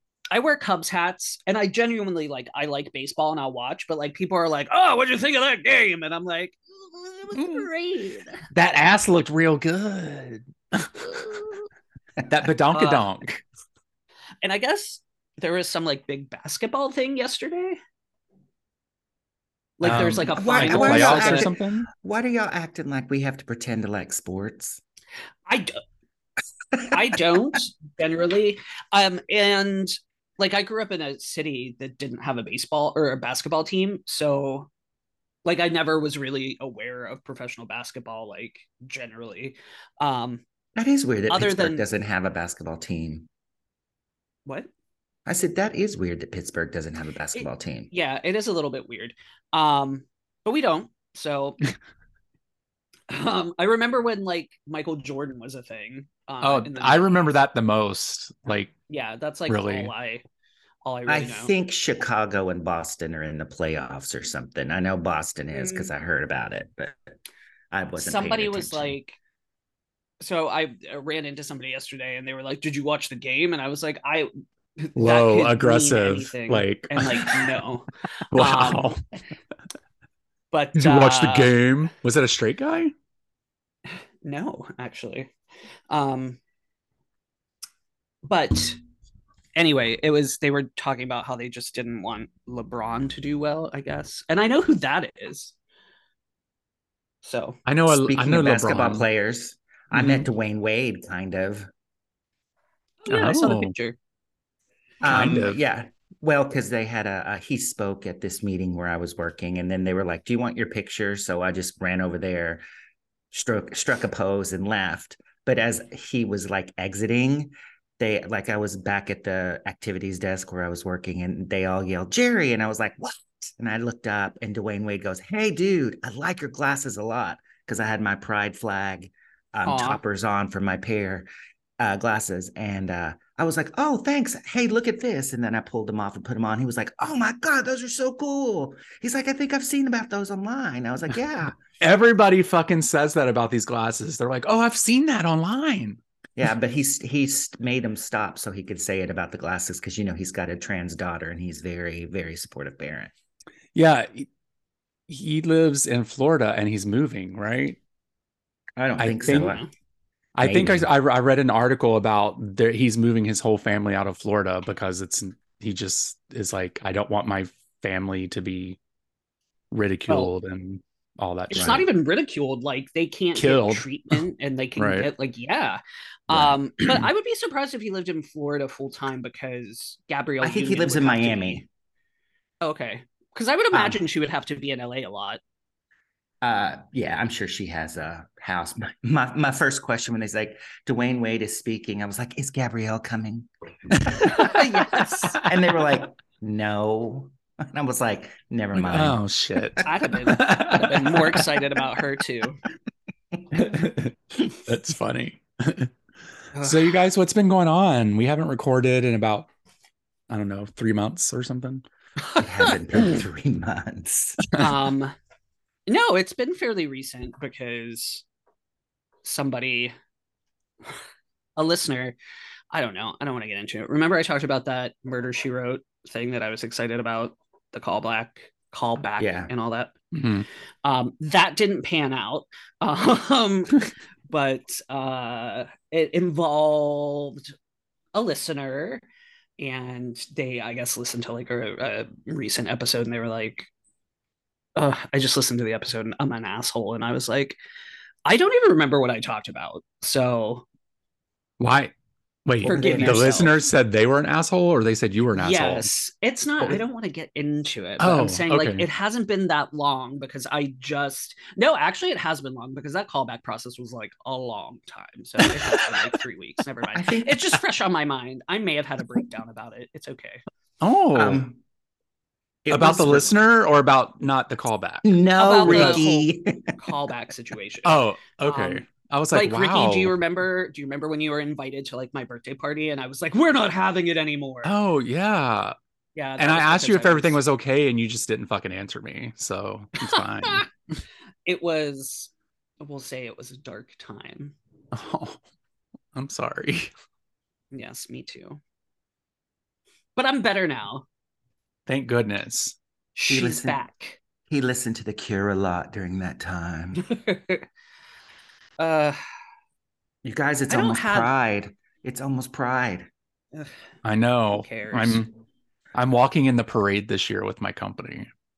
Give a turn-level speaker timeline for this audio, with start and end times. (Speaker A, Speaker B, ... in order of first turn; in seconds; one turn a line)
Speaker A: 0.3-8.4
Speaker B: 7.3-7.7
Speaker B: 8.5-11.5
Speaker B: 12.2-13.4
Speaker A: 12.7-13.1
Speaker A: 14.4-17.8
Speaker A: 19.8-21.5
Speaker B: 19.8-21.9
Speaker C: 20.3-24.8
Speaker A: 25.5-25.8
Speaker A: 26.9-34.7
Speaker A: 35.5-40.4
Speaker C: 40.8-43.3
Speaker A: 41.3-41.8
Speaker C: 45.3-47.9
Speaker A: 47.4-51.6
Speaker A: 53.1-57.3
Speaker B: 56.4-58.7
Speaker A: 58.9-60.2
Speaker B: 59.5-59.9
Speaker A: 60.9-61.5
Speaker C: 61.1-67.0
Speaker A: 65.5-65.9
Speaker C: 67.7-69.0
Speaker A: 68.0-69.2
Speaker A: 70.2-78.9
Speaker B: 75.0-77.4
Speaker B: 78.3-79.0
Speaker A: 80.5-81.5
Speaker B: 80.8-82.9
Speaker A: 84.2-85.3
Speaker A: 85.9-86.4
Speaker A: 88.2-88.8
Speaker A: 89.5-95.5
Speaker A: 97.2-97.6
Speaker B: 97.7-99.1
Speaker C: 97.9-101.7
Speaker B: 99.9-100.3
Speaker A: 103.0-104.0
Speaker B: 103.1-103.7
Speaker C: 105.0-112.6
Speaker B: 105.0-105.6
Speaker C: 113.3-131.3
Speaker A: 129.7-130.0
Speaker C: 131.8-141.6
Speaker B: 141.8-146.0
Speaker C: 146.4-153.1
Speaker B: 153.8-154.3
Speaker B: 155.1-157.8
Speaker C: 158.8-159.6
Speaker B: 159.0-159.6
Speaker A: 159.3-159.7
Speaker B: 160.3-168.8
Speaker C: 160.4-160.9
Speaker B: 169.7-171.8
Speaker A: 171.5-181.7
Speaker C: 171.5-171.8
Speaker B: 173.4-174.2
Speaker B: 174.8-175.1
Speaker C: 176.3-176.9
Speaker C: 180.4-181.7
Speaker A: 182.6-185.4
Speaker C: 183.7-184.0
Speaker C: 186.4-194.1
Speaker B: 194.0-195.5
Speaker A: 194.2-195.4
Speaker C: 195.4-199.9
Speaker B: 198.8-201.5
Speaker A: 199.8-202.6
Speaker B: 203.5-205.9
Speaker A: 206.5-206.9
Speaker B: 206.6-209.5
Speaker B: 210.3-211.8
Speaker A: 212.3-213.2
Speaker C: 212.4-214.4
Speaker A: 214.6-215.2
Speaker A: 215.9-218.2
Speaker A: 219.2-219.9
Speaker A: 221.6-222.2
Speaker A: 222.7-229.9
Speaker C: 229.2-229.5
Speaker B: 230.1-230.5
Speaker A: 230.8-237.5
Speaker A: 238.1-239.0
Speaker A: 239.6-243.7
Speaker A: 244.8-247.6
Speaker A: 248.3-250.7
Speaker B: 251.6-251.9
Speaker B: 252.5-255.9
Speaker C: 252.6-253.6
Speaker A: 252.7-253.5
Speaker A: 255.4-270.4
Speaker B: 258.0-258.9
Speaker B: 265.6-266.1
Speaker C: 267.0-267.6
Speaker B: 270.8-271.5
Speaker C: 271.1-271.6
Speaker C: 272.6-273.4
Speaker B: 272.7-275.1
Speaker C: 275.0-276.8
Speaker A: 275.4-284.7
Speaker B: 275.7-276.0
Speaker B: 277.9-280.1
Speaker B: 284.6-285.8
Speaker A: 286.2-287.4
Speaker B: 286.4-290.7
Speaker A: 290.0-290.6
Speaker A: 291.5-294.6
Speaker B: 294.9-295.4
Speaker B: 296.1-296.9
Speaker A: 297.7-298.6
Speaker A: 300.2-301.1
Speaker B: 301.9-302.8
Speaker A: 303.2-304.2
Speaker C: 303.3-303.8
Speaker C: 304.5-307.1
Speaker A: 307.0-307.7
Speaker A: 308.8-309.2
Speaker C: 310.2-313.1
Speaker A: 310.7-311.3
Speaker B: 314.0-315.3
Speaker A: 314.5-315.2
Speaker B: 315.9-318.3